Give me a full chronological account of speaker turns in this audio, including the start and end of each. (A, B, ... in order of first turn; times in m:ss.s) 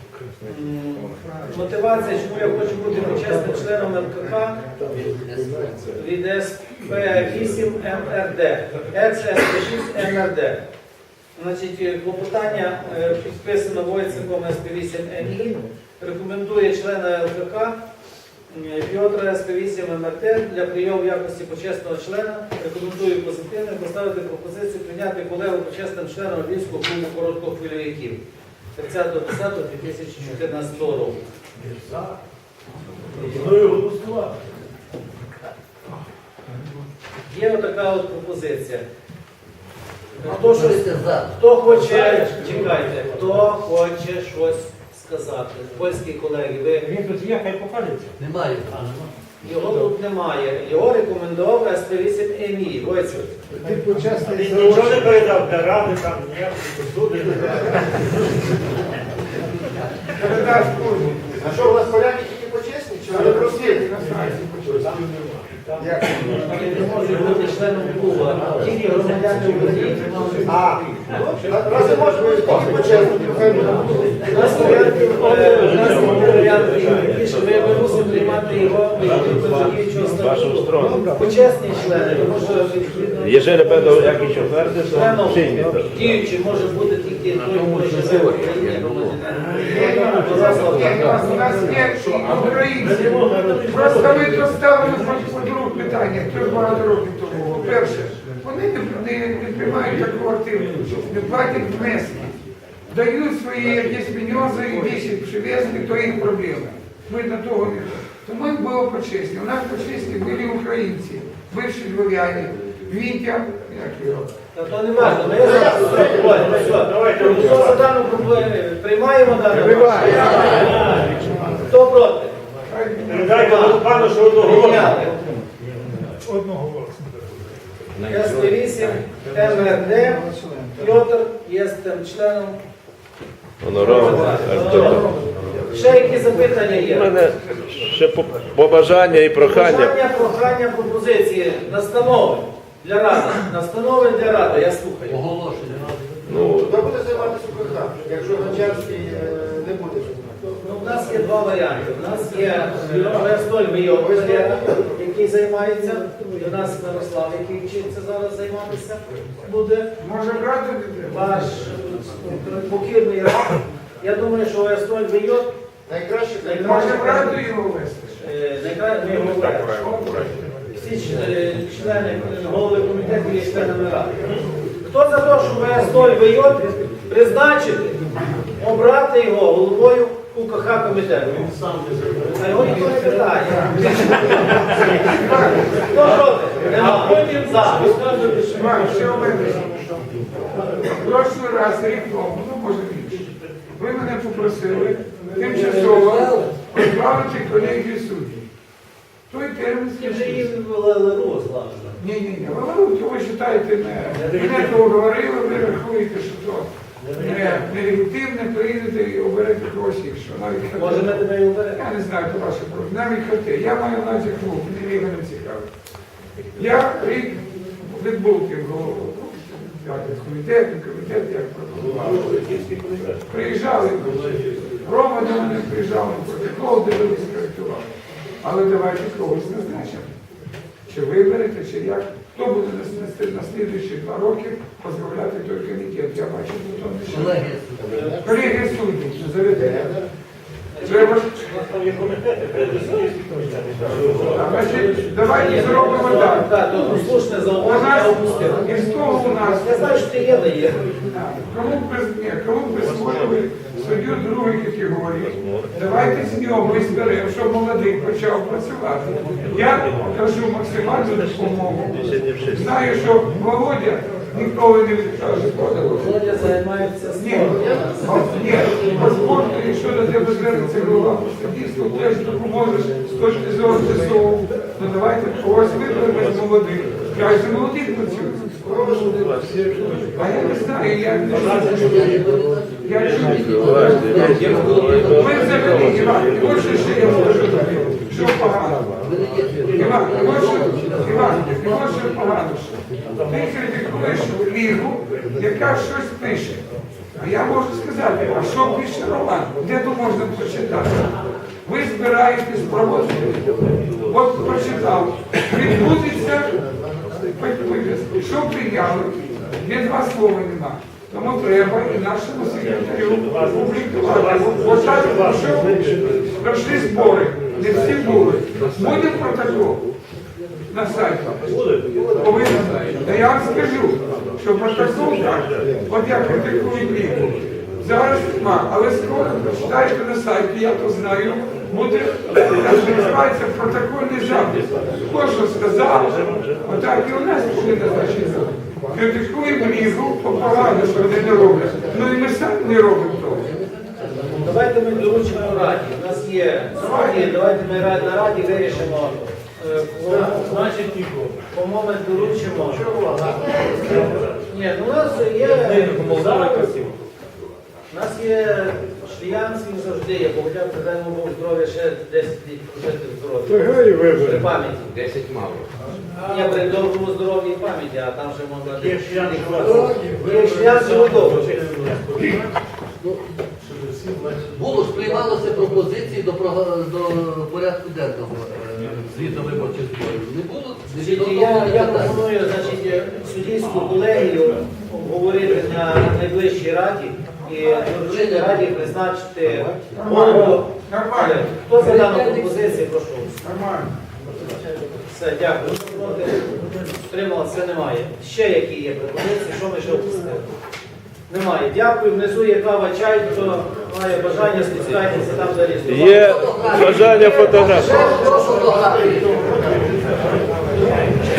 0:00.4-0:04.6 A
0:04.9-0:05.8 B
0:05.9-0:10.6 A
0:11.4-0:17.8 A
0:18.5-0:28.2 A
0:28.8-0:31.2 A
0:31.6-0:32.1 C
0:33.2-0:34.4 C
0:37.3-0:38.8 A
0:40.2-0:46.9 A
0:40.2-0:41.3 B
0:46.9-0:48.1 C
0:48.2-0:49.0 B
0:49.4-0:53.3 A
0:53.7-0:54.3 D
0:54.2-0:58.0 C
1:00.1-1:01.2 E
1:01.4-1:03.8 D
1:03.1-1:04.9 E
1:05.8-1:06.2 D
1:06.4-1:10.6 A
1:10.4-1:14.9 D
1:14.3-1:24.2 A
1:15.4-1:16.6 F
1:20.2-1:21.0 F
1:23.2-1:25.9 F
1:24.9-1:31.4 A
1:29.5-1:30.3 C
1:29.7-1:31.8 D
1:30.3-1:42.4 E
1:32.4-1:34.5 C
1:42.9-1:54.3 E
1:54.5-2:02.4 A
1:55.4-1:56.5 D
1:56.0-1:57.8 C
2:02.7-2:03.4 E
2:03.1-2:05.0 C
2:03.2-2:05.2 A
2:08.0-2:12.6 A
2:13.6-2:15.1 F
2:13.8-2:15.1 A
2:15.7-2:17.1 A
2:16.8-2:20.0 F
2:19.4-2:25.2 A
2:25.1-2:26.0 B
2:26.3-2:26.8 F
2:26.6-2:30.6 D
2:30.6-2:39.9 A
2:33.9-2:34.9 D
2:40.0-2:41.4 E
2:41.1-2:45.5 A
2:45.9-2:47.2 D
2:46.4-2:47.4 A
2:46.6-2:48.2 E
2:48.2-2:50.0 A
2:49.7-2:50.4 E
2:50.7-2:54.2 A
2:54.8-2:58.0 A
2:58.5-3:01.5 A
3:01.5-3:02.3 C
3:02.3-3:05.0 A
3:03.5-3:05.8 E
3:05.7-3:08.0 A
3:07.0-3:09.1 C
3:08.4-3:09.7 E
3:10.8-3:18.5 E
3:15.4-3:16.5 B
3:19.3-3:20.4 E
3:20.0-3:22.0 A
3:22.0-3:35.7 E
3:24.2-3:24.5 A
3:24.2-3:24.7 C
3:27.0-3:27.6 C
3:30.8-3:31.8 A
3:36.5-3:42.6 E
3:43.2-3:47.9 E
3:48.4-3:50.1 E
3:50.9-3:57.4 E
3:57.1-3:58.2 B
3:58.2-3:59.9 E
4:00.7-4:01.2 A
4:00.8-4:01.5 E
4:01.0-4:04.5 C
4:04.2-4:06.5 E
4:04.4-4:10.8 A
4:07.6-4:10.0 E
4:11.0-4:22.0 E
4:20.9-4:22.7 F
4:22.5-4:26.2 E
4:25.9-4:28.3 A
4:27.2-4:38.7 E
4:27.4-4:29.1 D
4:38.6-4:39.2 D
4:39.0-4:40.1 F
4:40.1-4:42.2 E
4:41.3-4:46.0 B
4:41.4-4:42.2 C
4:42.8-4:48.9 E
4:43.0-4:47.3 F
4:49.0-4:52.2 B
4:49.7-4:56.6 E
4:57.2-5:01.1 E
5:01.6-5:03.5 E
5:04.0-5:06.6 E
5:07.4-5:19.8 E
5:13.2-5:16.0 C
5:20.7-5:21.5 E
5:21.4-5:22.0 C
5:22.2-5:43.5 E
5:43.4-5:44.3 B
5:44.4-5:50.8 A
5:46.8-5:47.3 E
5:50.1-5:50.4 D
5:50.6-5:51.4 C
5:51.5-5:53.0 A
5:52.7-5:54.1 D
5:53.9-5:56.5 A
5:55.5-5:56.9 C
5:57.9-6:05.0 A
6:06.2-6:11.5 A
6:08.7-6:12.5 C
6:13.0-6:13.2 B
6:13.7-6:14.4 C
6:14.5-6:22.1 B
6:20.9-6:33.4 A
6:27.7-6:28.7 B
6:29.9-6:31.4 E
6:31.8-6:32.7 B
6:33.4-6:33.9 E
6:35.0-6:40.5 A
6:41.3-6:46.3 A
6:45.9-6:48.2 F
6:46.2-6:49.4 B
6:48.1-6:50.5 D